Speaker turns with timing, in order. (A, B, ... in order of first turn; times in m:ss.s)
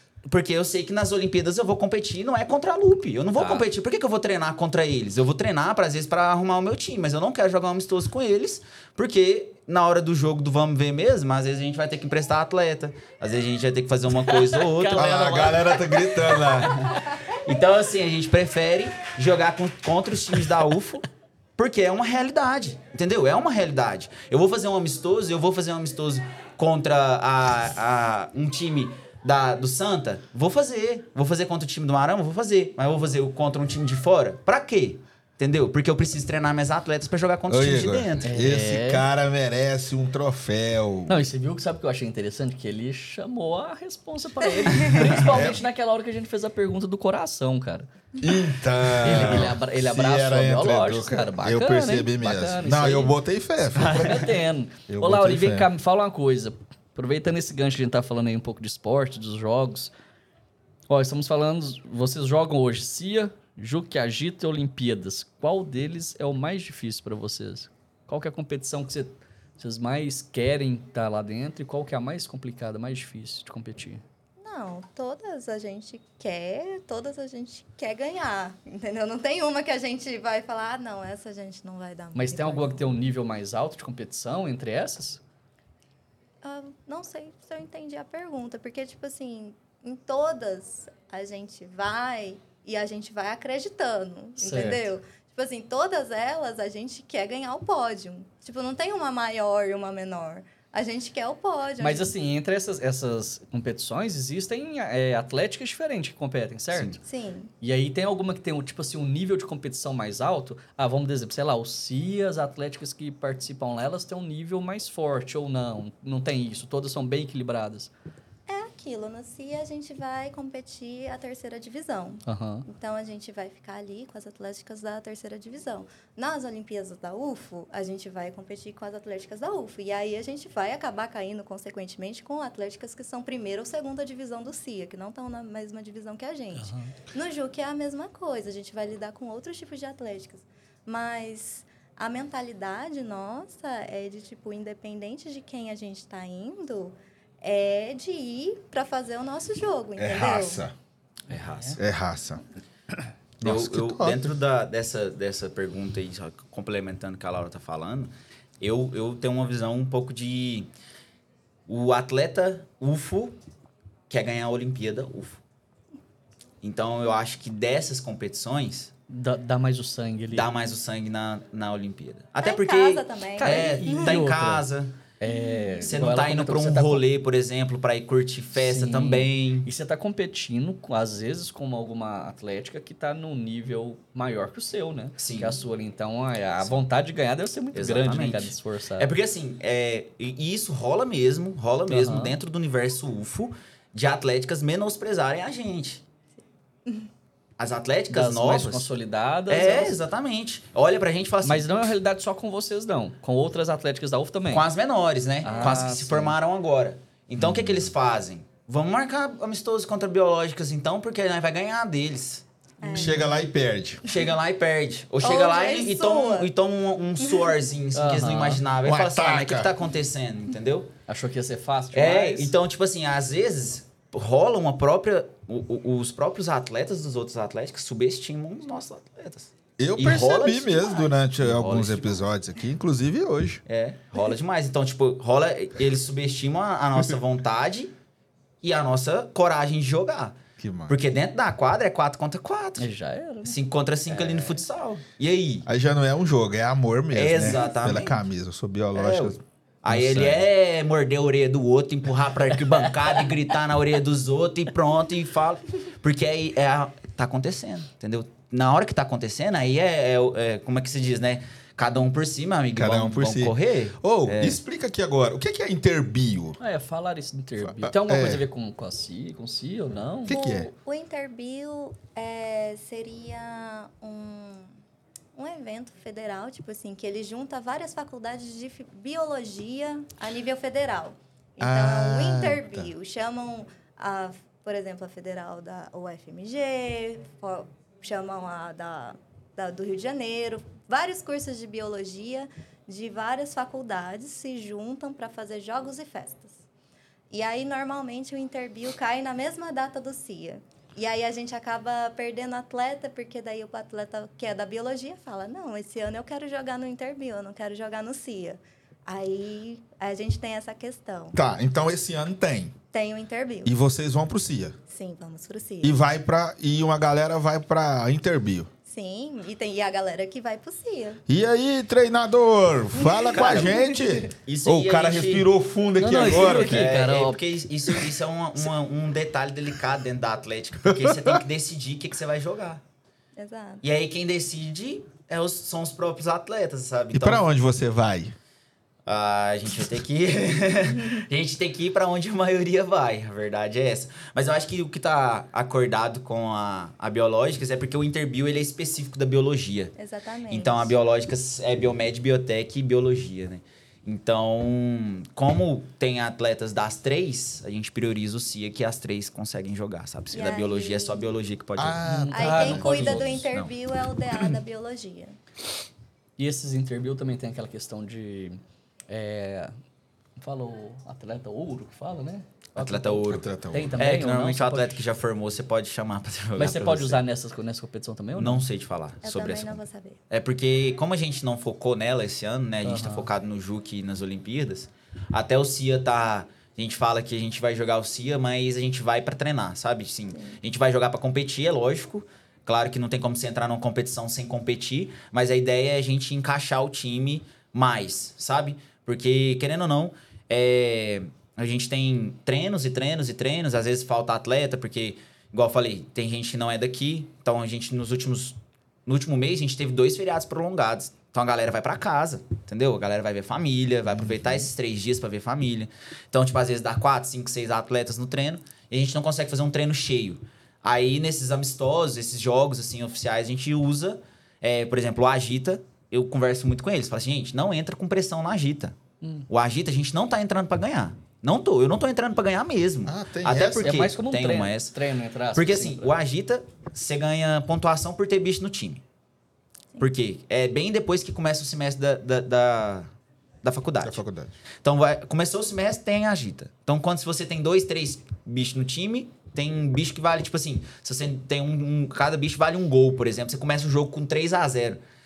0:00.3-0:15.7 A
0:03.4-0:03.6 B
0:14.2-0:16.7 B
0:14.9-0:16.8 C
0:16.4-0:21.1 A
0:21.6-0:38.4 A
0:37.5-0:41.3 C
0:38.2-0:39.0 B
0:41.1-0:47.9 B
0:44.9-0:45.1 A
0:45.1-0:45.6 C
0:48.2-0:54.3 C
0:49.0-0:49.6 A
0:49.0-0:53.2 B
0:53.8-0:54.3 A
0:53.8-0:59.9 B
0:54.9-0:55.7 C
1:00.9-1:14.0 B
1:14.4-1:22.8 D
1:22.2-1:25.2 B
1:26.4-1:42.1 D
1:34.4-1:34.9 B
1:41.8-1:47.0 B
1:46.7-1:47.0 A
1:47.0-1:47.5 D
1:47.6-1:57.9 B
1:58.5-2:30.6 D
2:02.3-2:02.6 B
2:16.6-2:16.9 B
2:30.0-2:30.7 C
2:31.3-2:31.8 A
2:31.8-2:32.4 C
2:33.4-2:40.7 A
2:33.4-2:34.3 C
2:41.7-2:43.4 A
2:44.1-2:45.4 A
2:46.6-2:48.9 A
2:49.1-2:50.4 B
2:50.3-2:55.0 A
2:52.4-2:54.2 D
2:53.4-2:54.6 B
2:55.2-2:57.0 B
2:55.3-2:55.8 D
2:55.8-2:59.7 A
2:58.6-3:09.1 B
3:05.2-3:05.6 A
3:07.7-3:16.0 A
3:11.9-3:12.4 B
3:17.6-3:18.9 A
3:18.1-3:20.0 B
3:19.5-3:21.9 A
3:21.4-3:24.7 B
3:24.5-3:32.4 A
3:25.4-3:26.4 B
3:27.4-3:27.9 C
3:32.8-3:33.4 D
3:32.9-3:34.0 C
3:34.0-3:40.9 A
3:35.2-3:36.5 D
3:38.0-3:38.6 B
3:38.8-3:39.7 C
3:41.1-3:42.5 B
3:41.9-3:52.2 A
3:49.8-3:53.6 C
3:53.7-3:57.9 A
3:58.6-4:02.9 A
4:00.6-4:01.0 C
4:02.8-4:03.6 B
4:03.4-4:05.7 A
4:04.1-4:04.6 B
4:05.7-4:10.5 C
4:07.1-4:08.2 A
4:09.0-4:24.6 A
4:22.8-4:26.6 C
4:26.6-4:30.4 B
4:27.6-4:28.4 C
4:30.2-4:30.7 C
4:30.3-4:34.7 D
4:35.4-4:56.6 D
4:41.6-4:42.9 C
4:57.3-5:11.4 D
5:11.4-5:12.8 C
5:12.9-5:13.7 D
5:13.6-5:14.8 C
5:14.9-5:16.0 D
5:15.8-5:18.7 C
5:18.9-5:21.2 D
5:21.3-5:26.9 C
5:23.0-5:24.2 D
5:23.4-5:23.8 A
5:24.5-5:25.5 A
5:26.0-5:27.4 B
5:26.2-5:32.8 A
5:30.9-5:31.4 C
5:33.4-5:33.8 D
5:33.8-5:37.4 A
5:37.1-5:38.4 C
5:39.1-5:49.9 A
5:50.0-5:50.9 D
5:50.5-6:02.0 A
6:00.3-6:01.2 D
6:01.8-6:03.4 C
6:02.1-6:03.2 B
6:02.3-6:05.4 D
6:02.6-6:03.7 A
6:06.4-6:09.8 B
6:10.4-6:15.0 B
6:12.8-6:17.2 A
6:13.3-6:14.0 C
6:16.6-6:18.6 B
6:18.4-7:09.0 A
6:19.2-6:20.2 D
6:22.8-6:23.3 B
6:54.1-6:54.7 C
7:09.2-7:09.5 B
7:09.5-7:15.0 A
7:13.1-7:14.1 C
7:13.8-7:16.1 B
7:15.5-7:19.0 A
7:20.0-7:23.1 A
7:23.6-7:24.2 A
7:24.0-7:24.6 C
7:24.8-7:35.0 A